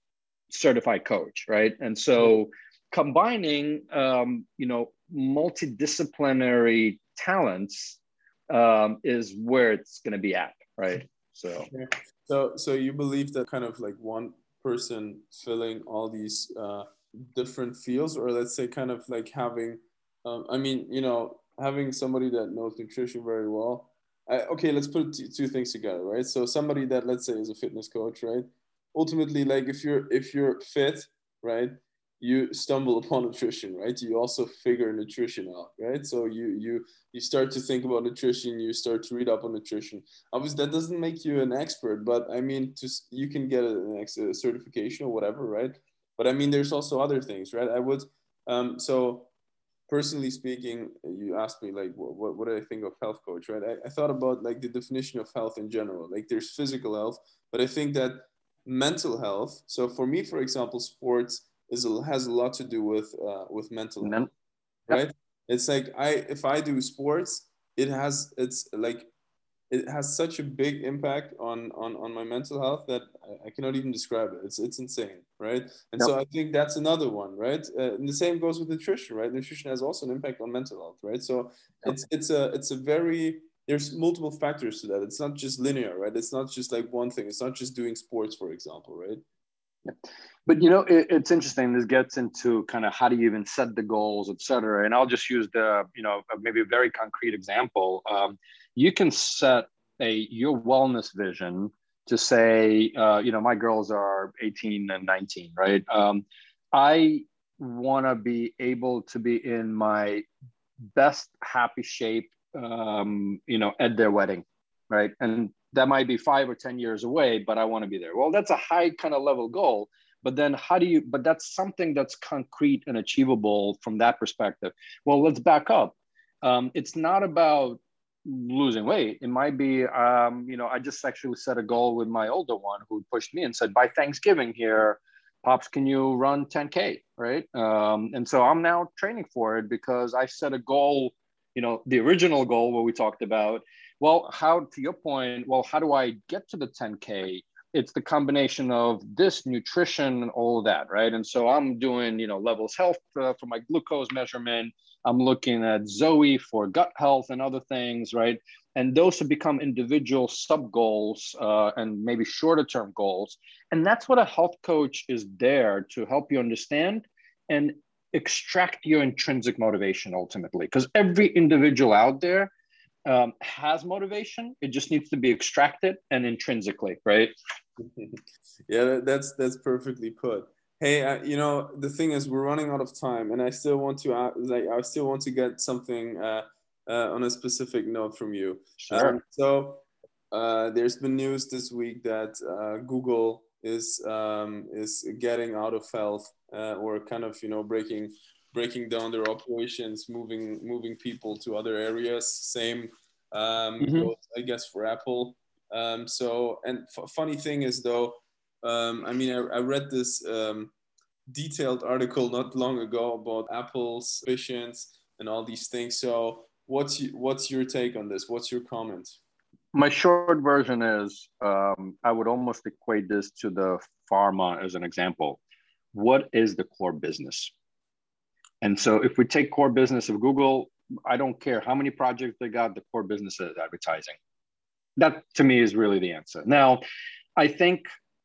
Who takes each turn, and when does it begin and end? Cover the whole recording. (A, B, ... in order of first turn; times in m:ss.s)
0:00.5-0:11.7 A
0:11.7-0:49.3 B
0:49.9-1:04.3 B
1:04.0-1:04.3 A
1:04.9-1:09.1 B
1:09.7-1:29.2 B
1:30.5-1:50.3 A
1:50.9-2:52.5 A
2:53.0-2:57.3 A
2:57.8-2:58.2 B
2:58.7-3:30.7 B
3:08.8-3:09.2 A
3:23.8-3:24.1 A
3:31.3-3:39.2 B
3:39.7-3:45.4 A
3:45.9-3:47.5 A
3:48.6-3:54.2 A
3:55.0-3:56.8 A
3:57.4-3:57.8 A